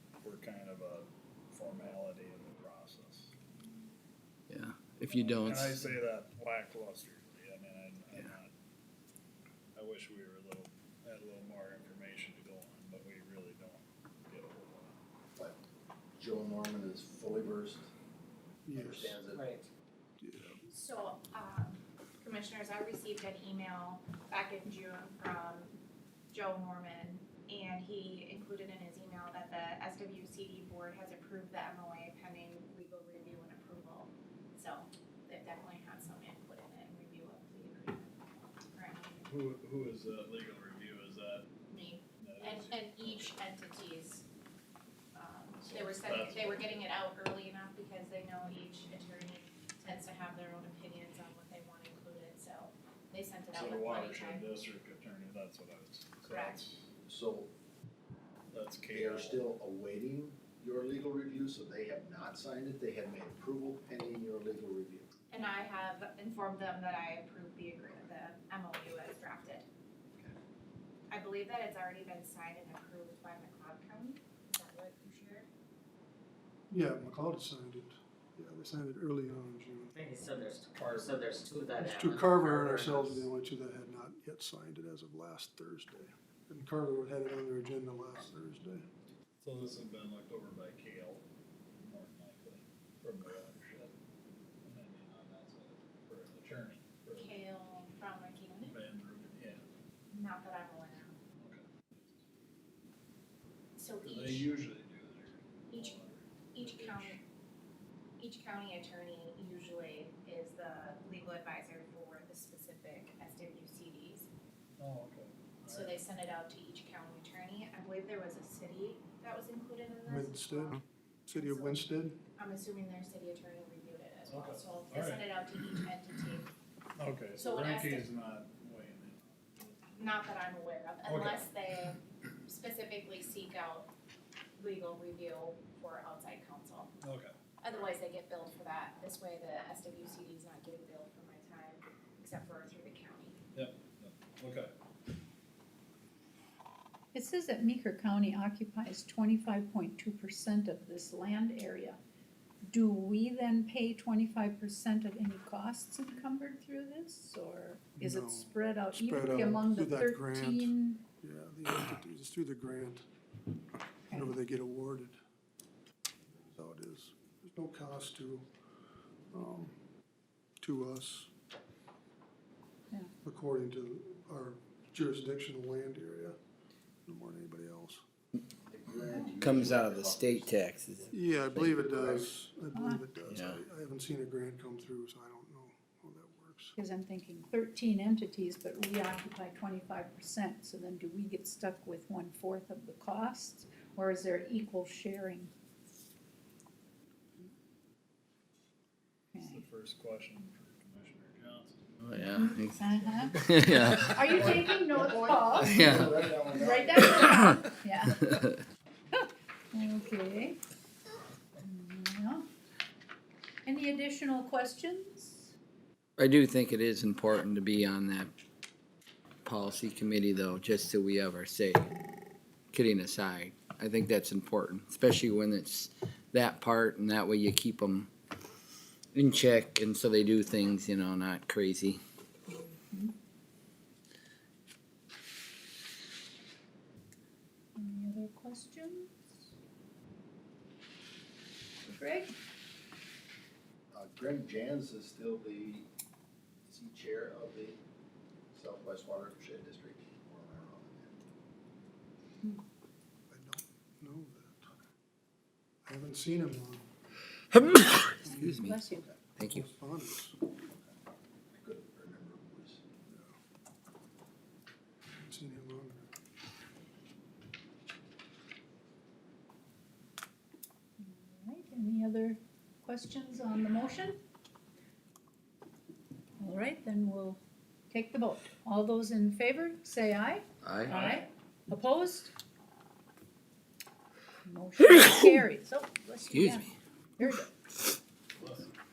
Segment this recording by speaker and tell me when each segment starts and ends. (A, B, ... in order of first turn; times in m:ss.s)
0:00.2-0:03.4 A
0:04.5-0:05.8 B
0:05.1-0:08.5 A
0:09.7-0:15.0 A
0:16.2-0:17.9 C
0:18.6-0:19.2 D
0:18.7-0:19.5 C
0:19.3-0:19.7 E
0:20.2-0:20.6 D
0:20.7-0:25.8 F
0:26.3-0:38.2 F
0:38.7-0:39.2 F
0:39.2-0:41.5 A
0:41.7-0:44.2 F
0:42.2-0:43.4 A
0:45.1-0:54.5 F
0:45.6-0:46.8 A
0:53.5-0:56.8 A
0:56.3-0:56.6 F
0:57.0-0:57.5 C
0:58.5-0:59.4 A
0:58.9-1:05.1 C
1:05.3-1:09.6 F
1:07.8-1:08.1 C
1:10.1-1:10.4 C
1:11.1-1:15.5 F
1:16.7-1:20.0 D
1:20.0-1:23.3 E
1:20.7-1:21.5 A
1:21.8-1:28.9 D
1:29.4-1:33.9 A
1:34.6-1:37.4 A
1:37.1-1:38.8 F
1:38.6-1:39.6 A
1:40.1-1:41.2 F
1:41.4-1:42.2 A
1:43.8-1:44.5 F
1:44.0-1:47.2 A
1:45.7-1:46.0 F
1:46.5-1:47.2 F
1:48.2-1:54.3 F
1:54.8-1:56.0 A
1:55.7-2:00.8 F
2:00.1-2:02.2 D
2:01.3-2:01.8 F
2:02.4-2:06.5 F
2:04.3-2:05.3 A
2:07.0-2:10.3 A
2:07.4-2:08.1 F
2:10.0-2:13.9 F
2:11.0-2:11.4 A
2:14.6-2:16.9 F
2:17.0-2:17.3 A
2:17.6-2:23.4 F
2:23.5-2:24.7 A
2:27.1-2:32.0 G
2:32.7-2:41.0 G
2:38.0-2:43.1 D
2:44.1-2:45.2 D
2:46.5-2:48.5 D
2:49.3-2:49.7 D
2:50.6-2:51.3 D
2:53.2-2:56.4 D
2:57.0-2:58.0 D
2:58.7-3:00.5 C
2:59.4-3:01.8 B
3:01.1-3:06.8 D
3:01.8-3:02.3 C
3:02.7-3:03.1 G
3:03.3-3:03.6 B
3:06.8-3:15.5 G
3:19.3-3:19.6 G
3:19.4-3:22.0 A
3:22.0-3:24.2 B
3:22.3-3:25.7 G
3:24.2-3:27.3 C
3:25.6-3:26.1 B
3:26.4-3:28.4 G
3:27.1-3:27.6 B
3:29.2-3:30.6 G
3:31.6-3:32.5 G
3:33.7-3:35.5 G
3:36.2-3:38.3 B
3:39.4-3:41.9 B
3:42.7-3:48.1 B
3:49.1-3:52.0 B
3:52.7-3:53.1 G
3:57.8-3:59.2 G
4:01.8-4:02.4 G
4:03.9-4:05.9 C
4:06.6-4:07.8 C
4:08.5-4:11.1 C
4:13.3-4:14.8 D
4:15.8-4:16.9 D
4:17.5-4:19.7 B
4:18.2-4:18.6 D
4:18.6-4:19.0 G
4:19.5-4:20.4 D
4:21.5-4:22.8 C
4:23.1-4:23.4 D
4:25.1-4:26.1 D
4:31.0-4:34.2 G
4:36.4-4:37.4 G
4:37.9-4:42.3 G
4:40.6-4:41.0 B
4:40.8-4:41.3 A
4:44.5-4:47.5 G
4:46.2-4:46.7 B
4:48.4-4:48.7 A